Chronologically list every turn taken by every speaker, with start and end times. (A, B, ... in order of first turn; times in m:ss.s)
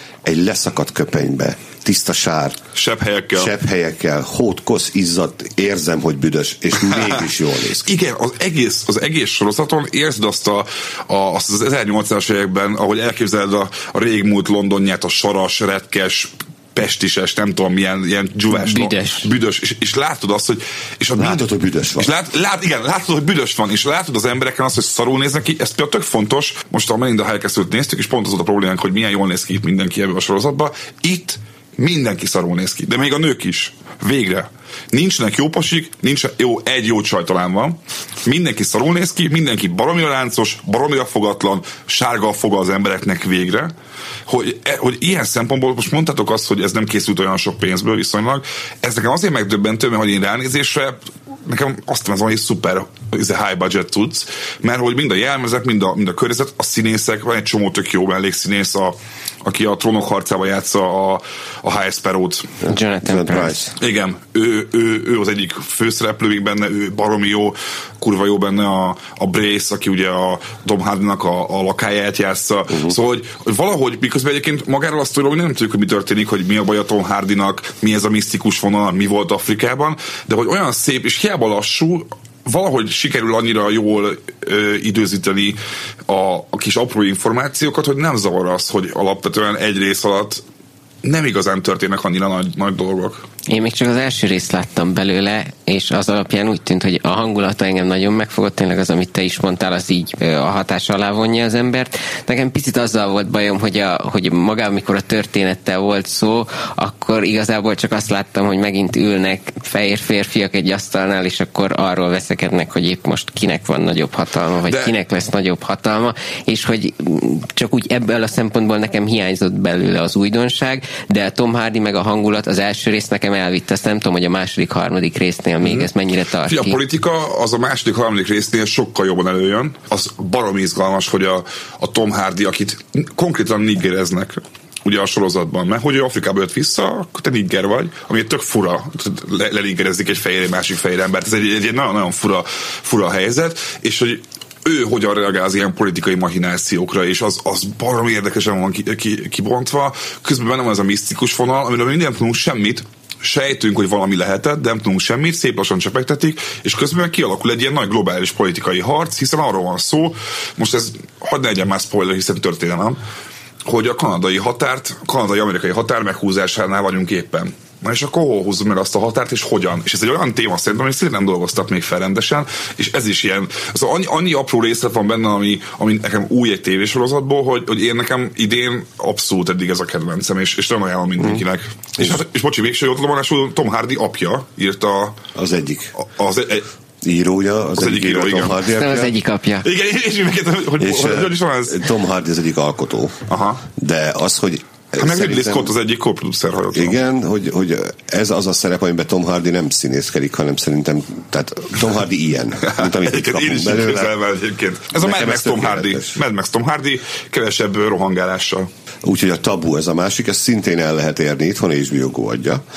0:00.2-0:02.6 A
0:02.8-0:03.5 B
0:03.3-0:07.8 A
0:07.8-0:21.4 B
0:18.5-0:19.3 C
0:21.2-0:22.1 A
0:22.0-0:43.7 B
0:44.3-1:02.5 B
1:02.6-1:03.6 C
1:02.6-1:03.7 A
1:03.8-1:30.4 B
1:31.0-1:33.2 B
1:33.5-2:06.8 C
2:06.5-2:43.0 B
2:43.6-3:05.2 B
3:05.3-3:05.9 A
3:06.0-3:06.6 B
3:07.0-3:09.1 A
3:07.7-3:08.6 B
3:08.6-3:09.7 C
3:09.6-3:11.8 B
3:10.8-3:15.7 A
3:13.3-3:13.6 B
3:15.0-3:17.0 B
3:16.7-3:24.1 A
3:22.6-3:28.7 B
3:25.0-3:26.2 A
3:29.0-3:32.6 A